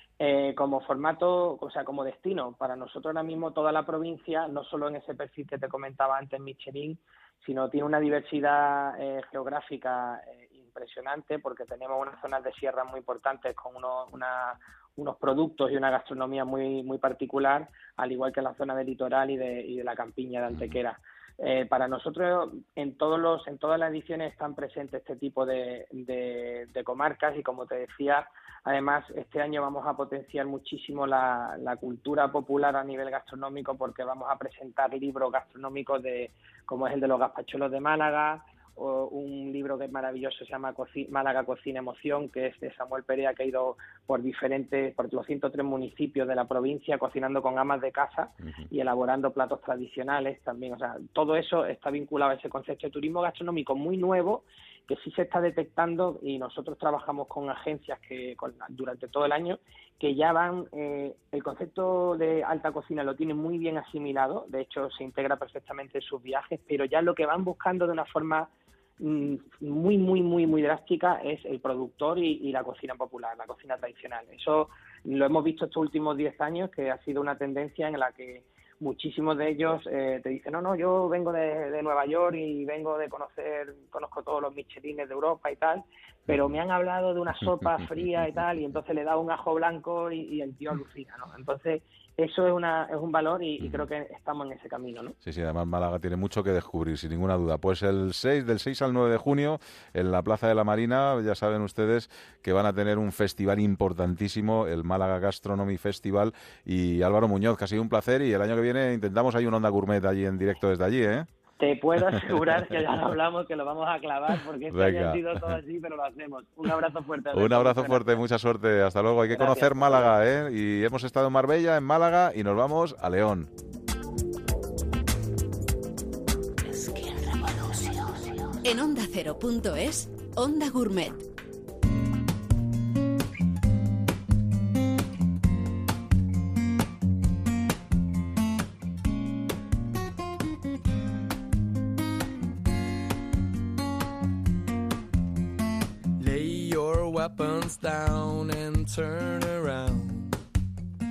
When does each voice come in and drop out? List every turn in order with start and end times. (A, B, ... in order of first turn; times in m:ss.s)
0:00.2-1:08.5 A
0:20.5-0:20.8 B
0:48.4-0:48.7 B
1:09.0-1:35.2 A
1:26.3-1:26.6 B
1:27.6-1:27.9 B
1:33.6-1:33.9 B
1:35.2-1:51.3 B
1:51.6-1:58.2 A
1:52.1-1:52.7 B
1:54.7-1:55.6 B
1:57.3-2:03.5 B
1:59.3-2:00.2 A
2:08.6-2:11.2 C
2:26.2-2:30.4 D